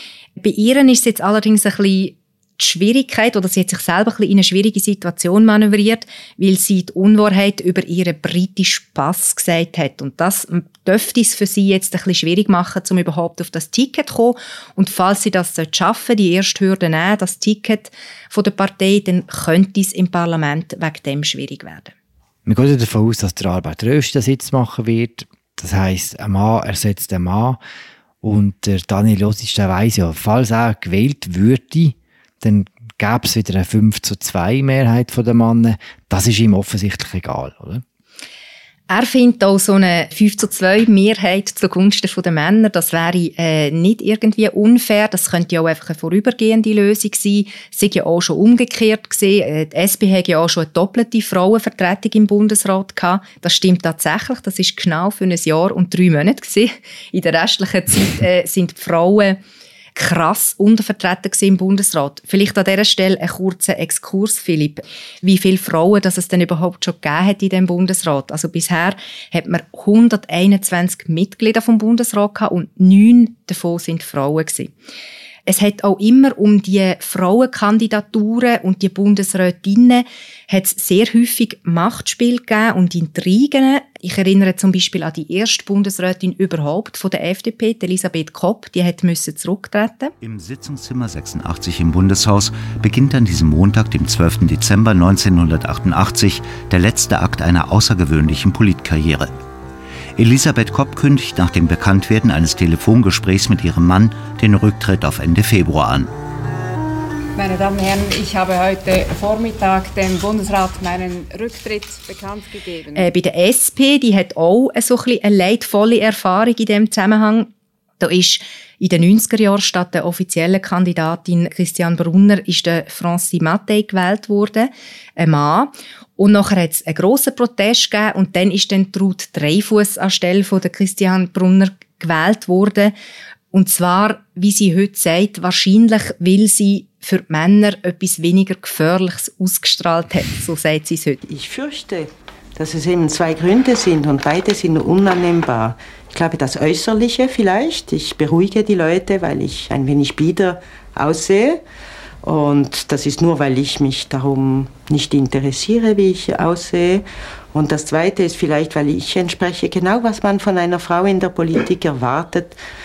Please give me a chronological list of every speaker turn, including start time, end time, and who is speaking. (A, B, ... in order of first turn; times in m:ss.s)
0:00.4-0:21.9 A
0:22.5-0:27.6 B
0:28.2-0:37.8 B
0:38.9-0:59.4 A
1:00.0-1:14.7 A
1:15.5-1:30.1 A
1:30.2-1:39.3 C
1:40.2-1:46.1 C
1:47.4-1:53.1 D
1:52.9-2:12.9 A
2:13.5-2:21.3 A
2:21.3-2:31.6 E
2:32.2-2:42.6 E